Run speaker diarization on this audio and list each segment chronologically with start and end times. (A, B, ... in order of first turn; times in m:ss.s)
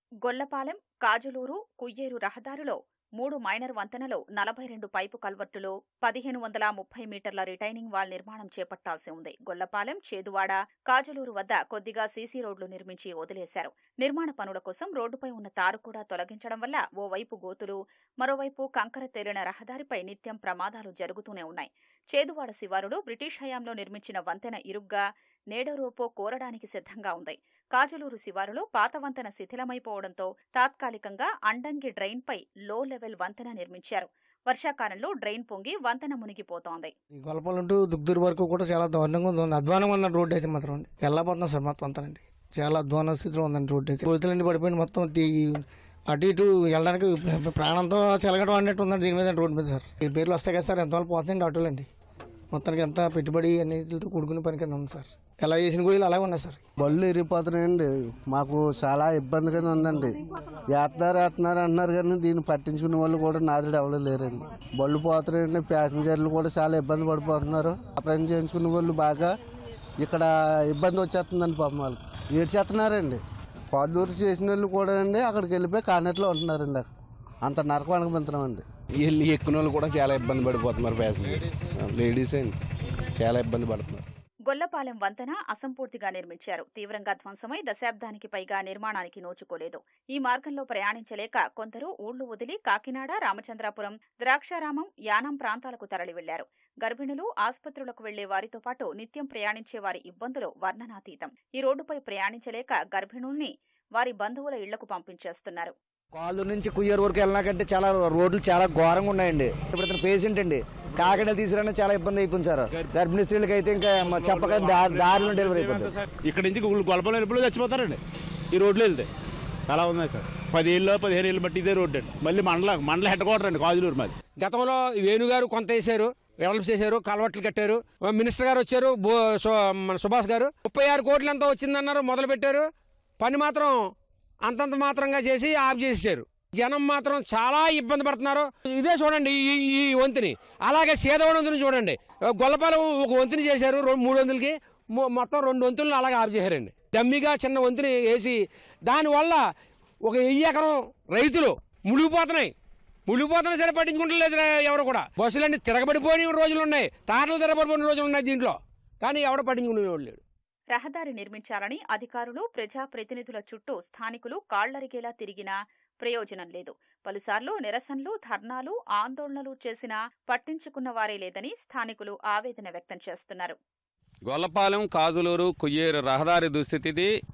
0:00.2-0:36.9 A
0:37.2-0:51.8 B
0:52.5-0:56.5 B
0:56.8-1:00.2 C
1:00.7-1:09.3 C
1:10.0-1:16.8 C
1:17.4-1:18.6 C
1:19.0-1:22.5 D
1:23.1-1:24.0 D
1:24.5-1:45.7 A
1:46.1-1:56.0 E
1:56.2-1:58.0 F
1:58.5-1:59.1 F
1:59.7-2:04.1 F
2:04.4-2:13.9 G
2:14.4-2:29.5 G
2:30.0-2:32.5 G
2:33.1-2:40.2 G
2:40.7-2:53.6 A
2:54.3-2:57.1 H